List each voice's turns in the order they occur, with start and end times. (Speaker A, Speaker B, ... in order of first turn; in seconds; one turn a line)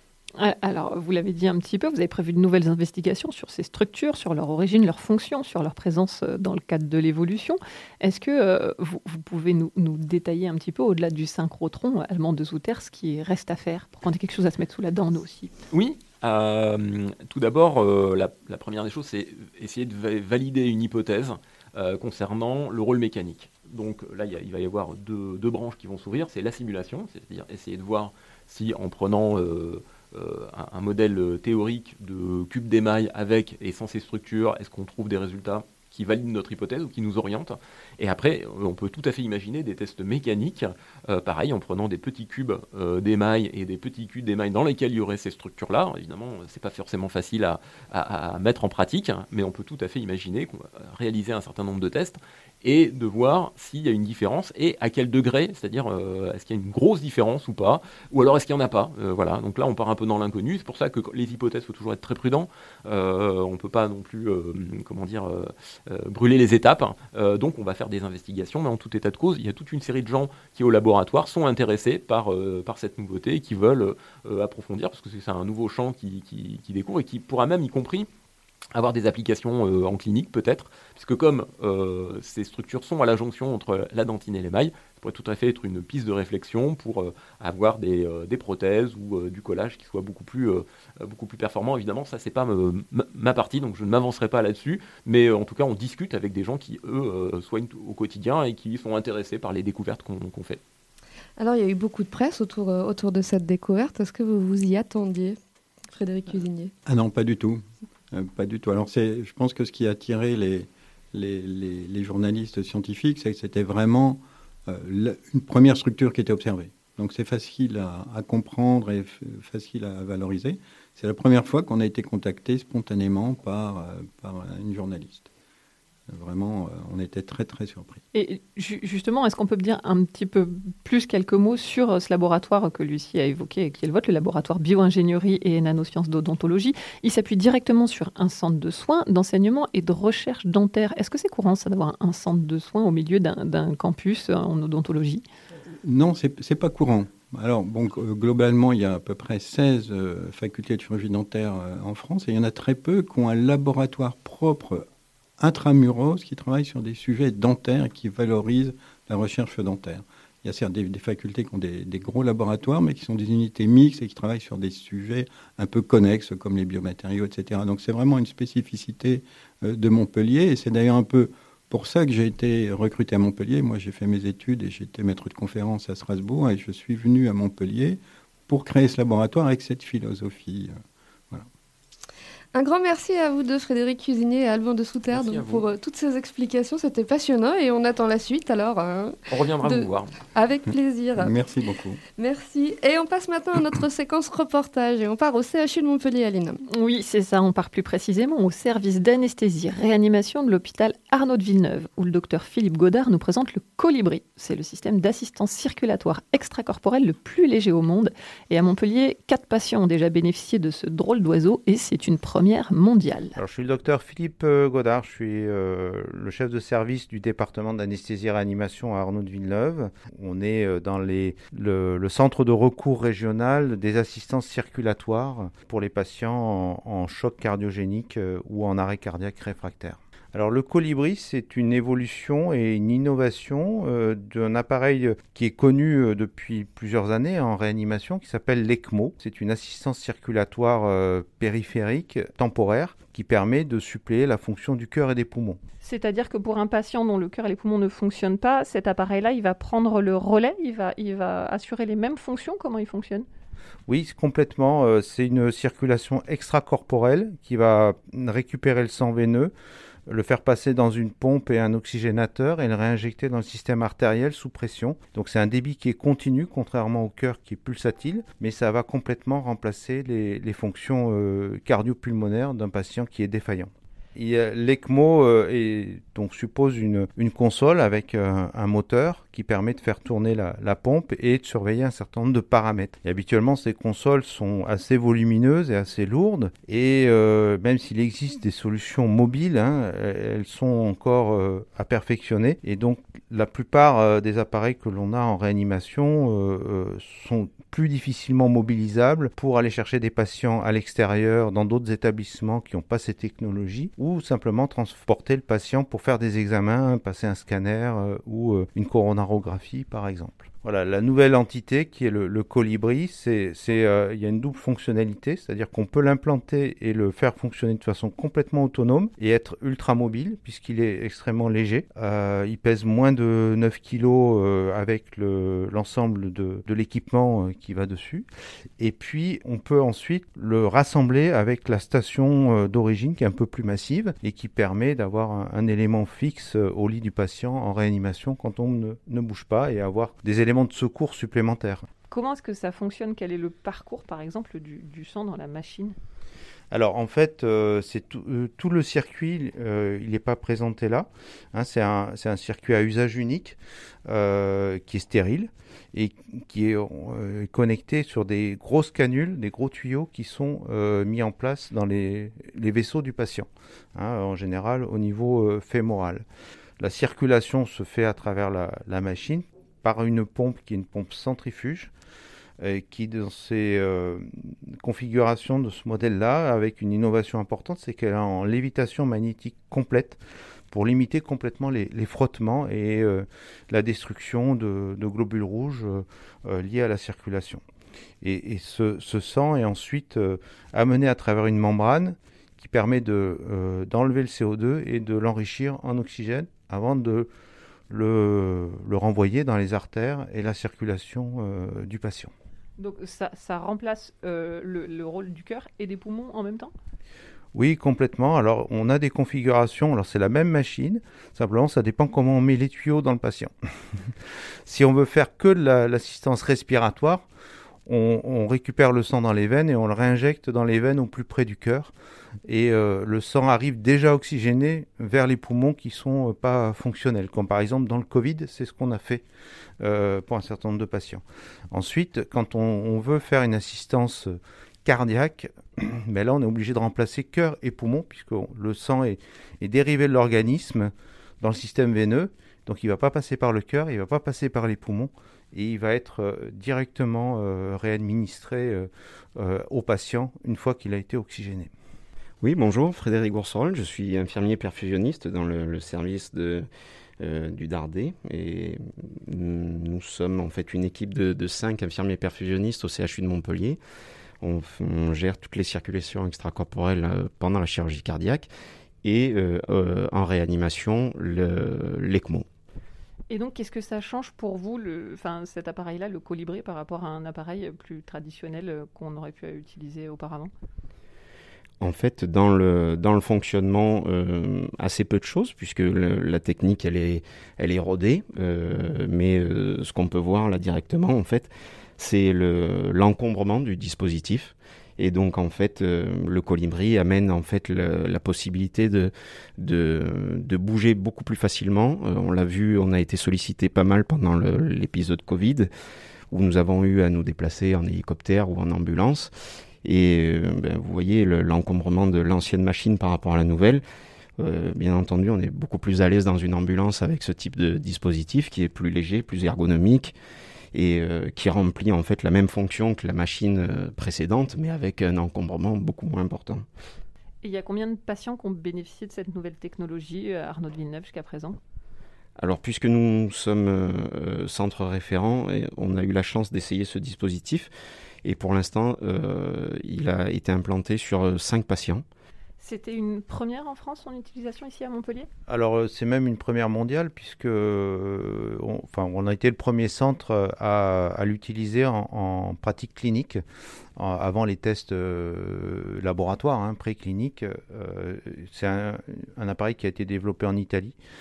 Speaker A: 0.4-15.5
Speaker B: 15.7-78.1
Speaker B: 78.8-100.6
Speaker C: 101.4-105.4
Speaker C: 105.9-106.7
Speaker D: 106.9-125.3
Speaker D: 126.1-128.0
Speaker A: 128.1-145.2
Speaker D: 145.7-154.9
Speaker D: 155.4-180.7
Speaker C: 182.5-191.3
Speaker B: 185.1-185.7
Speaker B: 189.3-190.1
Speaker D: 191.2-192.0
Speaker C: 192.2-196.6
Speaker A: 196.7-213.4
Speaker E: 213.4-245.6
Speaker A: 245.8-253.3
Speaker E: 253.9-259.5
Speaker E: 260.1-328.3
Speaker E: 328.8-341.9
Speaker A: 342.1-345.9
Speaker E: 346.7-366.2
Speaker E: 366.8-371.9
Speaker E: 372.6-380.2
Speaker E: 380.7-387.6
Speaker E: 388.2-397.3
Speaker E: 397.9-402.3
Speaker A: 402.8-406.7
Speaker E: 407.6-413.5
Speaker E: 414.7-417.3
Speaker E: 417.9-421.9
Speaker E: 422.5-429.2
Speaker E: 429.8-451.7
Speaker F: 452.4-456.7
Speaker F: 457.2-463.8
Speaker F: 464.4-468.5
Speaker F: 469.0-472.5
Speaker A: 473.3-480.5
Speaker F: 481.8-505.7
Speaker F: 506.3-509.3
Speaker F: 509.8-513.8
Speaker F: 514.4-520.1
Speaker F: 520.7-526.6
Speaker A: 527.4-531.6
Speaker F: 532.4-537.7
Speaker F: 538.2-542.0
Speaker A: 542.6-545.3
Speaker E: 545.5-553.4
Speaker E: 554.0-561.0